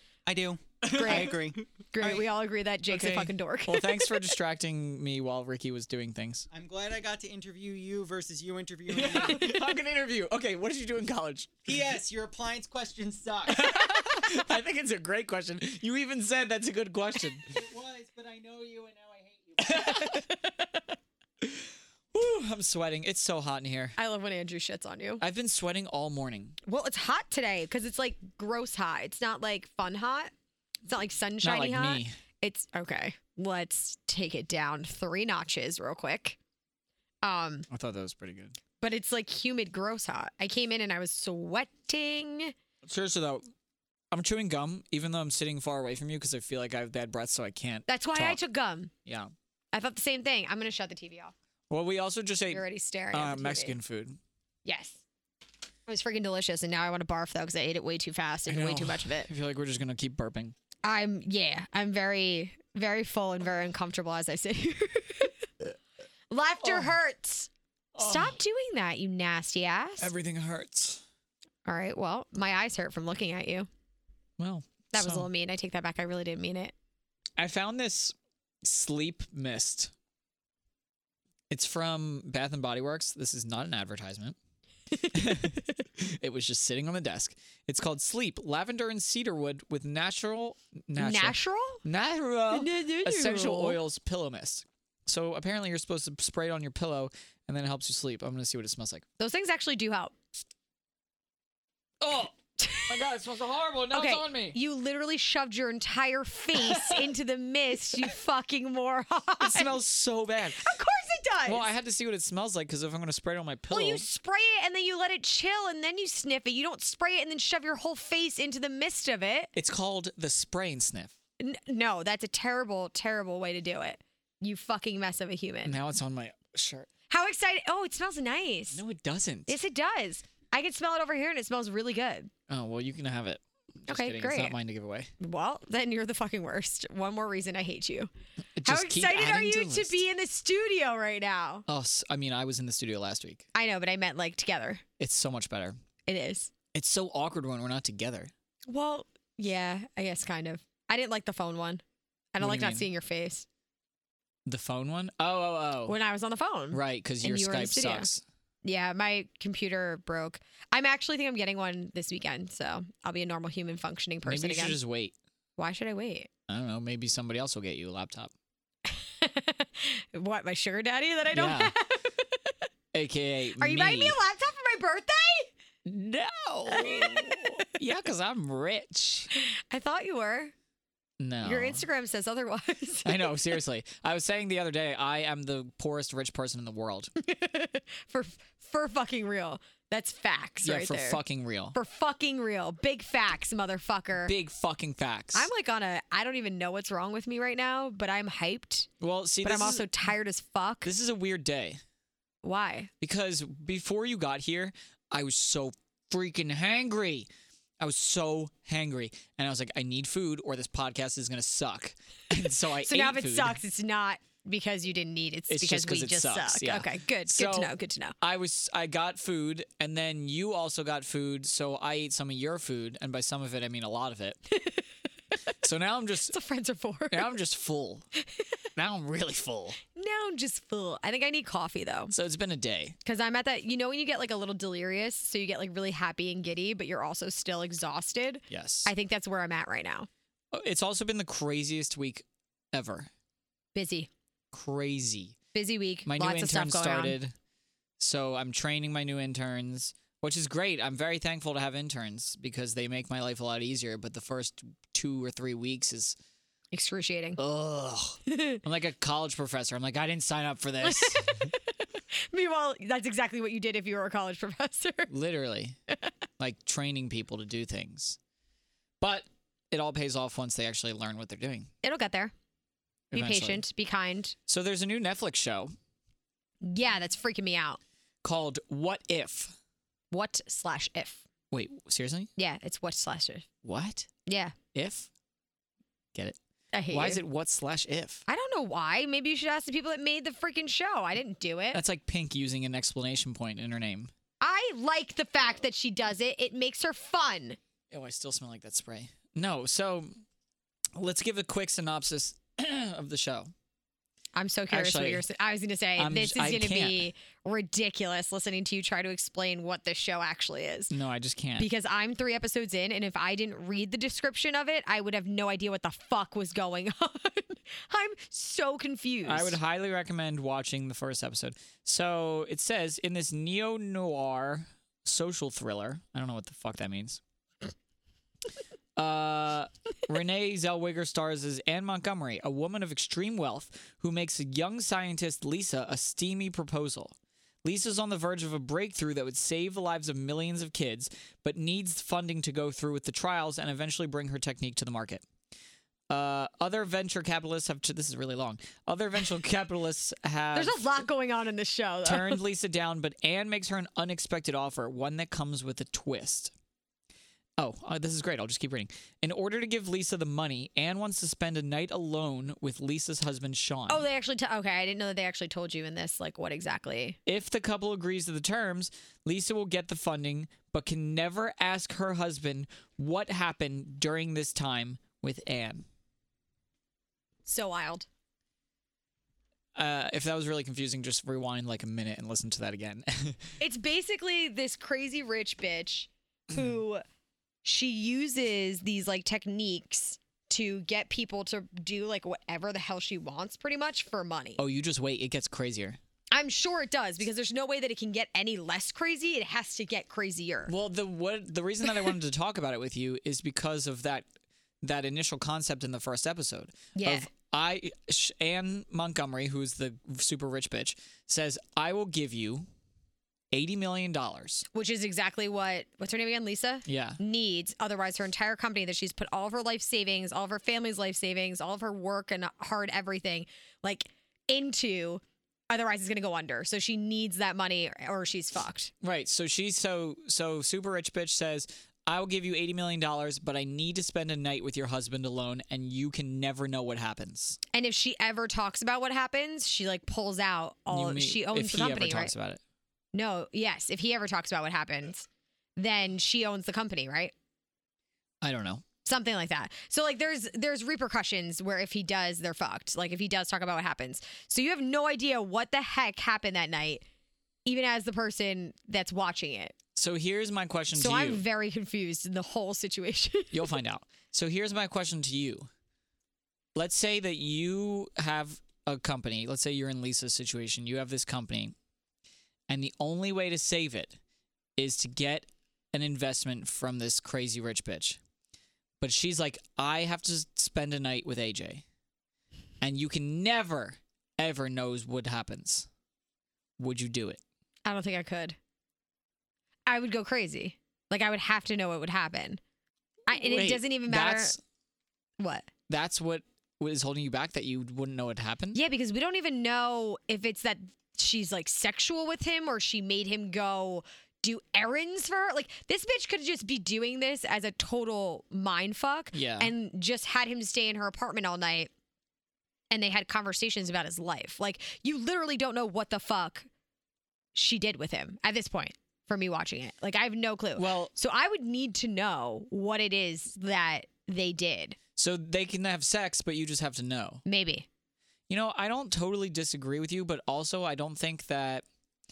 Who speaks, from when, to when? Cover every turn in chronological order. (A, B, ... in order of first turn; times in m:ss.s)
0:00.2-0:02.2 A
0:00.8-0:01.5 B
0:00.9-0:01.4 C
0:01.9-0:04.3 C
0:02.9-0:06.4 B
0:06.5-0:09.7 A
0:08.9-0:11.5 B
0:11.6-0:13.7 A
0:13.5-0:17.5 B
0:17.5-0:20.0 A
0:19.6-0:20.2 B
0:19.8-0:20.8 C
0:21.4-0:24.0 B
0:24.0-0:25.2 C
0:25.2-0:26.6 B
0:26.6-0:30.3 C
0:30.9-0:36.4 C
0:31.4-0:32.1 B
0:37.2-0:37.6 C
0:37.7-0:38.5 B
0:38.8-0:42.5 C
0:42.8-0:43.4 B
0:44.1-0:48.4 B
0:47.9-0:48.9 C
0:49.0-0:49.3 B
0:49.7-0:51.3 C
0:51.7-0:54.2 B
0:52.5-0:53.8 C
0:54.6-0:55.0 C
0:55.9-0:59.3 C
0:58.5-1:00.5 B
1:00.8-1:05.4 C
1:06.3-1:10.1 C
1:06.6-1:06.9 B
1:07.9-1:08.4 B
1:10.0-1:11.0 B
1:11.6-1:13.7 C
1:14.4-1:15.3 B
1:14.9-1:16.7 C
1:17.4-1:19.9 B
1:21.5-1:24.4 B
1:25.1-1:39.0 B
1:31.0-1:31.8 C
1:32.5-1:33.8 C
1:39.2-1:40.1 C
1:42.0-1:42.3 B
1:42.6-1:43.0 C
1:42.9-1:44.6 B
1:43.9-1:49.7 C
1:46.5-1:47.1 B
1:49.4-1:50.6 B
1:50.6-1:51.7 C
1:51.4-1:54.0 B
1:53.7-1:59.5 C
1:59.5-2:01.1 B
2:01.4-2:05.8 C
2:05.6-2:06.9 B
2:07.1-2:08.8 C
2:08.7-2:09.5 B
2:09.5-2:12.3 C
2:12.5-2:15.1 B
2:13.9-2:14.6 C
2:15.2-2:18.1 C
2:18.6-2:20.0 B
2:18.6-2:21.6 C
2:21.7-2:23.4 B
2:23.5-2:24.8 C
2:25.0-2:25.8 B
2:26.0-2:26.5 C
2:26.7-2:28.3 B
2:28.7-2:31.8 C
2:32.3-2:33.4 C
2:32.4-2:32.9 B
2:34.4-2:36.0 B
2:35.9-2:38.1 C
2:36.7-2:38.2 B
2:38.6-2:44.8 C
2:44.2-2:45.1 B
2:45.6-2:46.3 C
2:46.5-2:48.3 B
2:48.8-2:52.6 C
2:51.3-2:51.7 B
2:52.9-2:54.2 B
2:53.6-2:55.5 C
2:55.8-2:59.3 B
2:56.7-2:57.6 C
2:59.3-3:00.5 C
3:01.2-3:01.8 B
3:01.4-3:03.4 C
3:03.0-3:07.1 B
3:07.2-3:11.2 C
3:10.6-3:11.7 B
3:11.7-3:14.3 C
3:14.2-3:15.5 B
3:15.3-3:18.9 C
3:19.0-3:19.9 B
3:19.4-3:20.9 C
3:20.8-3:21.8 B
3:22.4-3:22.9 C
3:23.0-3:27.3 B
3:27.8-3:33.6 B
3:32.8-3:38.1 C
3:35.5-3:44.4 B
3:44.5-3:44.8 C
3:45.6-3:46.4 B
3:46.3-3:47.3 C
3:47.1-3:48.1 B
3:48.8-3:49.8 B
3:49.9-3:52.1 C
3:52.1-3:53.0 B
3:53.0-4:00.1 C
3:58.5-3:58.9 B
4:00.5-4:03.1 B
4:03.7-4:04.1 C
4:04.5-4:05.4 B
4:05.5-4:07.1 C
4:06.0-4:07.3 B
4:08.0-4:16.2 B
4:16.7-4:17.4 C
4:17.4-4:21.5 B
4:18.3-4:18.6 C
4:20.8-4:25.1 C
4:25.1-4:25.8 B
4:26.4-4:28.2 B
4:29.0-4:31.7 B
4:31.8-4:32.3 C
4:33.1-4:33.6 B
4:33.1-4:34.3 C
4:34.5-4:35.7 B
4:36.6-4:37.8 C
4:38.2-4:39.5 B
4:40.1-4:41.2 C
4:41.5-4:42.3 B
4:42.4-4:43.5 C
4:43.6-4:44.1 B
4:44.3-4:44.5 C
4:44.7-4:45.1 B
4:46.7-4:47.2 C
4:46.9-4:48.2 B
4:48.3-4:51.8 C
4:51.7-4:54.1 B
4:54.4-4:57.6 C
4:57.9-5:00.1 B
5:00.9-5:03.5 B
5:04.4-5:10.9 C
5:04.7-5:05.2 B
5:06.0-5:07.0 B
5:10.9-5:11.7 B
5:11.6-5:19.6 C
5:19.2-5:27.2 B
5:29.0-5:45.2 B
5:46.1-5:50.8 B
5:50.5-5:52.4 C
5:52.0-5:56.5 B
5:57.6-6:04.0 B
6:03.9-6:07.2 C
6:07.2-6:15.8 B
6:17.4-6:18.1 C
6:19.7-6:23.5 B
6:23.6-6:27.0 C
6:27.6-6:34.6 C
6:34.6-6:36.0 B
6:36.3-6:40.7 C
6:40.7-6:44.3 B
6:44.8-6:52.6 B
6:46.9-6:47.3 C
6:53.5-6:54.6 B
6:54.7-7:08.9 C
6:56.8-6:57.2 B
7:09.0-7:17.6 B
7:17.7-7:22.3 C
7:20.9-7:22.6 B
7:23.1-7:27.3 C
7:28.4-7:28.8 B
7:29.0-7:37.0 C
7:37.6-7:39.7 C
7:40.0-7:41.4 B
7:40.9-7:43.7 C
7:43.5-7:45.7 B
7:46.7-7:51.7 B
7:52.7-7:54.2 B
7:54.8-7:58.2 B
7:59.0-8:01.8 B
8:02.8-8:05.9 B
8:06.8-8:07.4 B
8:07.8-8:08.6 C
8:09.9-8:12.6 C
8:13.3-8:14.6 C
8:13.3-8:14.6 B
8:15.4-8:15.7 C
8:15.9-8:18.8 B
8:18.7-8:31.9 C
8:29.3-8:29.7 B
8:32.9-8:36.7 C
8:37.5-8:45.0 C
8:40.8-8:41.1 B
8:45.2-8:47.4 B
8:47.4-8:47.9 C
8:48.5-8:51.8 B